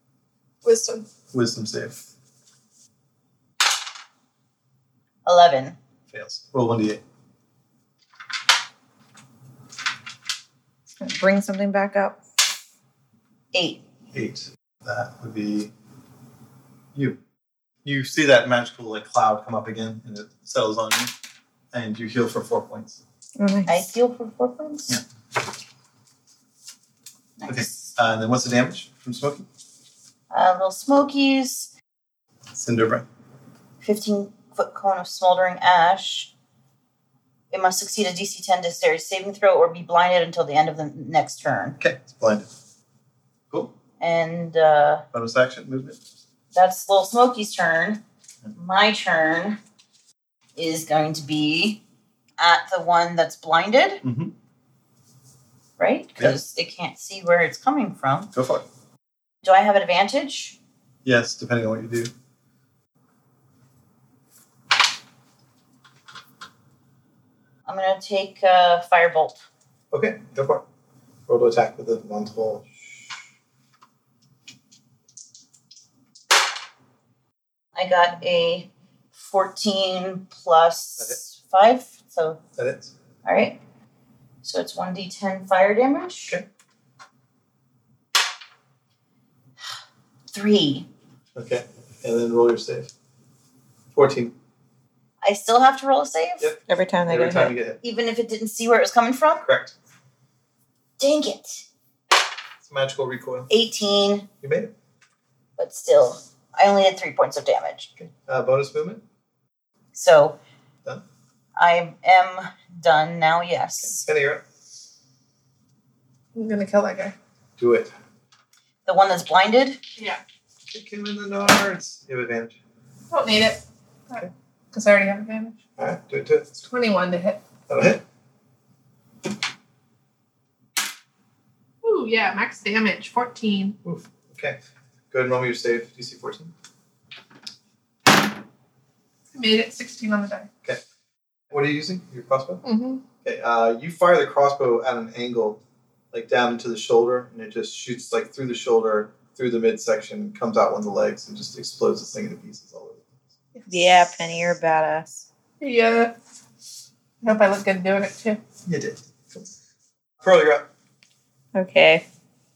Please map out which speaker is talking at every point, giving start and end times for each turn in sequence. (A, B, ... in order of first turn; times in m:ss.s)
0:00.6-0:01.1 A
0:01.3-0:02.1 B
0:05.2-0:05.8 C
0:06.1-0:07.0 B
0:11.0-0:12.2 D
0:13.5-0:13.8 C
0:14.1-0:15.7 B
0:16.9-0:17.2 B
0:17.8-0:21.1 B
0:21.7-0:23.0 B
0:23.4-0:23.9 D
0:23.7-0:25.0 C
0:27.4-0:27.9 C
0:27.5-0:29.5 B
0:30.3-0:31.7 C
0:32.5-0:33.0 B
0:33.8-0:36.3 C
0:37.5-0:41.8 C
0:41.8-0:42.5 B
0:44.0-0:45.0 C
0:45.1-0:46.0 B
0:46.5-0:48.0 C
0:48.5-0:49.6 C
0:50.6-0:51.8 C
0:52.4-0:54.0 C
0:54.0-0:54.3 B
0:55.8-0:58.3 C
0:58.3-0:58.6 B
0:59.4-1:00.6 C
1:01.0-1:02.1 B
1:07.7-1:09.4 C
1:09.9-1:10.6 B
1:11.3-1:12.9 B
1:17.8-1:22.4 C
1:22.6-1:22.9 B
1:23.2-1:23.6 C
1:24.4-1:26.4 C
1:30.3-1:30.9 C
1:31.4-1:32.9 B
1:33.9-1:34.3 B
1:35.2-1:36.5 C
1:36.4-1:37.8 B
1:36.7-1:37.5 D
1:37.8-1:39.5 C
1:39.4-1:39.8 B
1:41.0-1:41.7 C
1:42.6-1:43.5 B
1:43.5-1:44.3 C
1:44.4-1:44.7 B
1:45.6-1:47.9 C
1:48.0-1:49.0 B
1:49.9-1:50.4 C
1:51.6-1:54.0 C
1:53.8-1:54.4 B
1:56.4-1:57.2 A
1:57.6-1:57.9 B
1:58.9-1:59.8 C
2:00.7-2:02.6 B
2:03.1-2:05.6 A
2:05.8-2:06.5 B
2:06.6-2:07.4 A
2:07.7-2:08.0 B
2:11.8-2:13.8 A
2:13.8-2:14.6 B
2:15.1-2:16.5 B
2:19.3-2:20.5 A
2:21.5-2:22.6 B
2:22.6-2:23.0 A
2:23.2-2:33.2 B
2:33.5-2:34.0 A
2:33.7-2:35.3 D
2:35.6-2:36.1 A
2:37.2-2:38.4 A
2:38.7-2:39.5 B
2:40.2-2:40.7 B
2:41.6-2:42.0 D